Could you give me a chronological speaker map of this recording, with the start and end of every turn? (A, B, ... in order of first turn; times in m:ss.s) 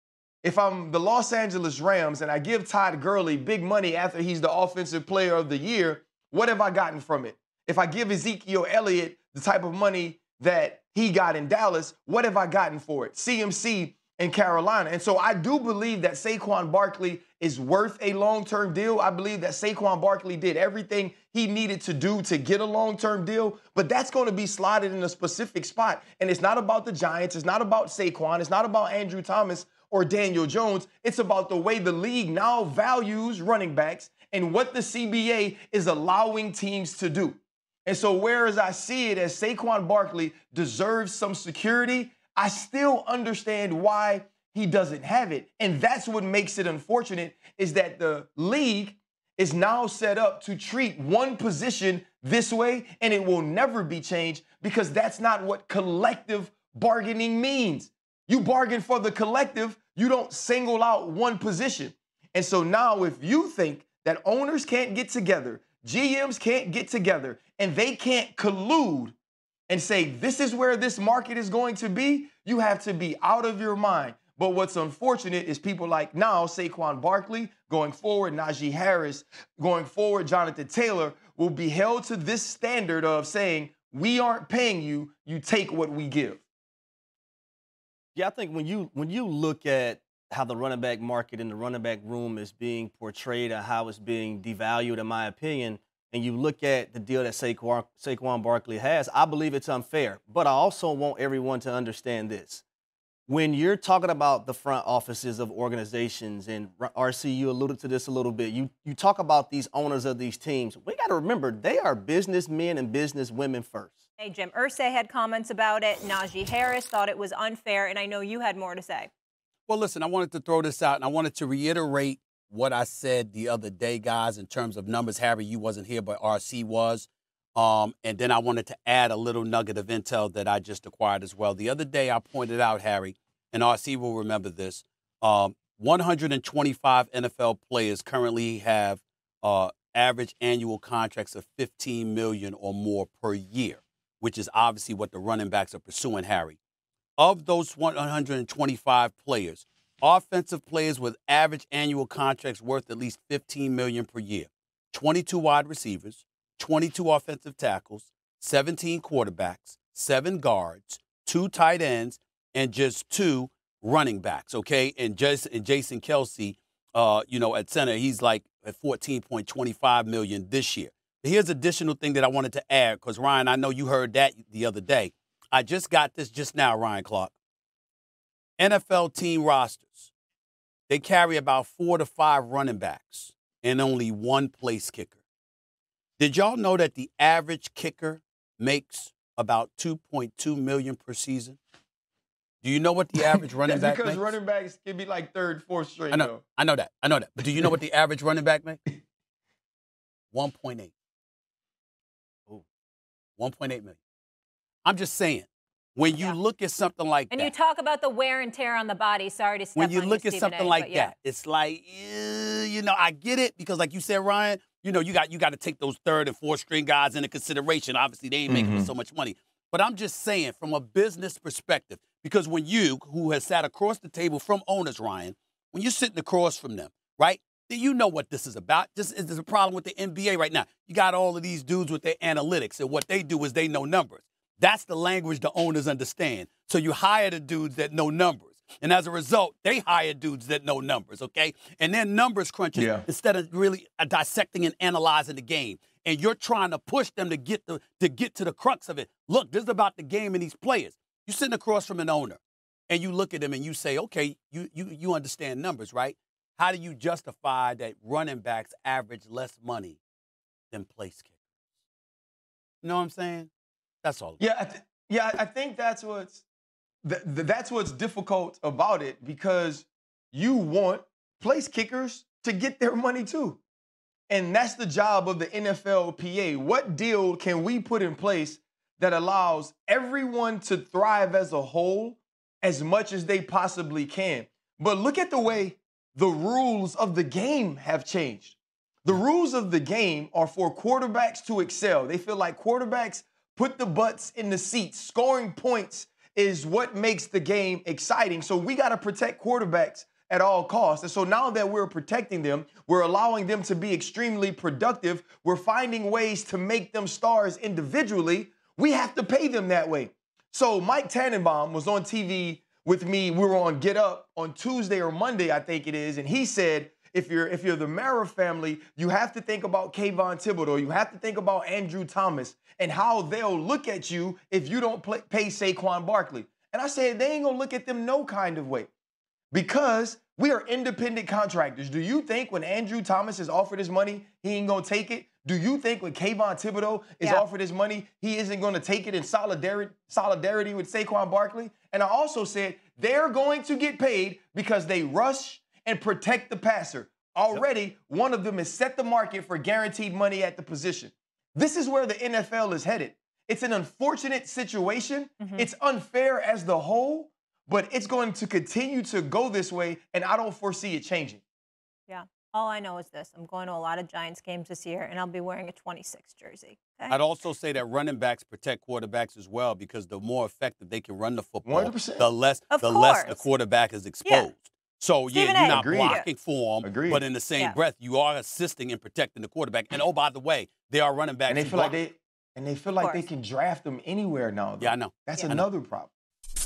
0:00.4-1:09.2 A
1:09.7-1:26.4 A
1:28.1-1:42.6 B
1:43.3-1:54.0 B
1:54.2-1:59.1 C
1:59.7-2:26.6 D
2:27.2-2:57.3 D
2:58.6-3:00.1 D
3:00.9-3:05.2 D
3:06.2-3:11.6 D
3:12.6-3:14.3 D
3:13.6-3:16.4 A
3:16.1-3:18.8 D
3:20.3-3:20.9 D
3:23.4-3:24.0 D
3:24.8-3:27.5 D
3:26.1-3:26.4 C
3:27.3-3:31.1 C
3:29.8-4:20.0 D
3:38.5-3:38.9 A
4:02.7-4:03.0 A
4:20.7-4:21.3 D
4:22.8-4:23.5 D
4:24.0-4:24.4 D
4:24.4-4:26.4 A
4:27.0-4:33.6 A
4:34.3-5:28.9 A
5:29.5-6:01.4 A
5:55.4-5:55.7 C
6:02.1-6:07.2 C
6:07.1-6:22.0 D
6:11.6-6:12.3 A
6:12.7-6:13.4 C
6:15.3-6:16.3 C
6:15.6-6:16.2 A
6:16.8-6:17.2 A
6:21.5-6:26.1 A
6:23.0-6:23.2 C
6:24.8-6:25.6 D